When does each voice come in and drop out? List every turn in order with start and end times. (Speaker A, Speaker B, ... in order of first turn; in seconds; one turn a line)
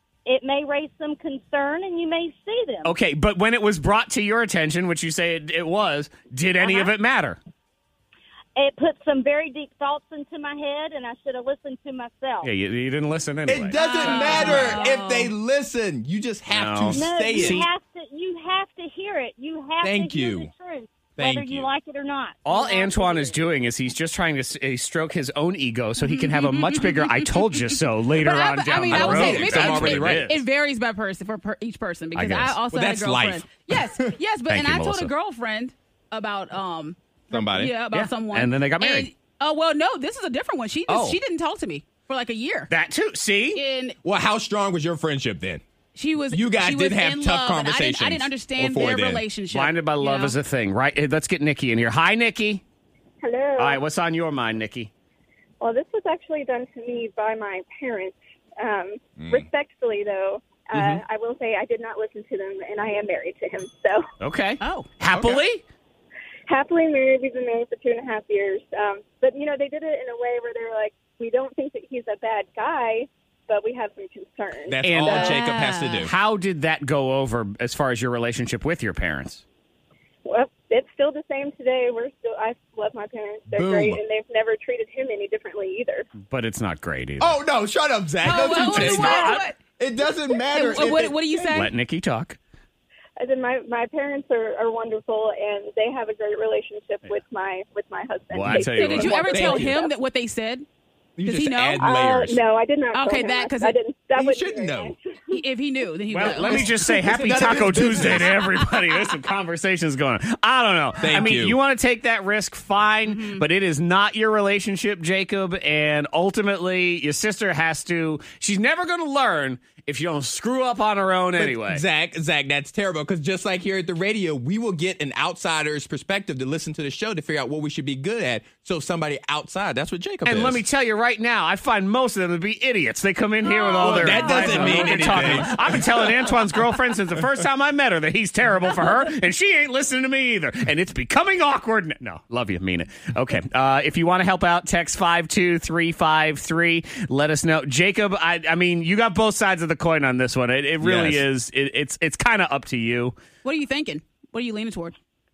Speaker A: 0.3-2.9
Speaker B: 2.9-7.4
Speaker A: 8.6-12.5
Speaker B: 12.4-14.8
Speaker C: 13.5-17.7
Speaker D: 13.7-15.3
Speaker B: 16.5-17.7
Speaker A: 16.9-23.3
Speaker C: 19.8-20.5
Speaker C: 21.2-21.7
Speaker B: 22.4-30.4
Speaker D: 26.0-42.7
Speaker C: 28.9-30.4
Speaker B: 32.1-32.6
Speaker C: 32.7-34.1
Speaker B: 34.5-35.1
Speaker C: 37.3-37.7
Speaker B: 37.9-39.1
Speaker B: 40.9-41.2
Speaker B: 42.7-43.6
Speaker D: 43.5-44.0
Speaker C: 44.0-45.6
Speaker D: 46.0-50.4
Speaker C: 46.3-49.2
Speaker B: 49.5-52.6
Speaker E: 53.2-53.8
Speaker B: 53.6-54.9
Speaker E: 55.6-64.1
Speaker C: 59.2-59.5
Speaker B: 60.7-61.0
Speaker B: 64.2-65.6
Speaker D: 64.6-64.9
Speaker C: 65.1-65.4
Speaker E: 66.5-75.1
Speaker C: 74.7-76.1
Speaker B: 74.8-75.4
Speaker D: 75.1-76.1
Speaker B: 76.0-79.4
Speaker E: 80.3-86.1
Speaker C: 83.5-84.0
Speaker B: 86.2-87.4
Speaker C: 87.2-91.5
Speaker D: 88.2-89.6
Speaker B: 88.5-89.5
Speaker D: 90.4-91.7
Speaker B: 91.5-92.4
Speaker E: 93.2-99.9
Speaker B: 98.3-99.6
Speaker D: 98.5-100.7
Speaker C: 99.3-99.8
Speaker C: 101.2-102.4
Speaker D: 101.2-102.0
Speaker E: 101.8-105.1
Speaker D: 102.9-103.8
Speaker C: 104.2-104.9
Speaker D: 105.3-108.2
Speaker B: 106.1-121.8
Speaker C: 106.4-108.4
Speaker C: 111.0-111.6
Speaker D: 113.1-113.4
Speaker C: 121.4-130.6
Speaker B: 130.2-153.2
Speaker D: 133.4-135.6
Speaker C: 133.8-136.0
Speaker C: 150.8-151.2
Speaker D: 153.4-154.9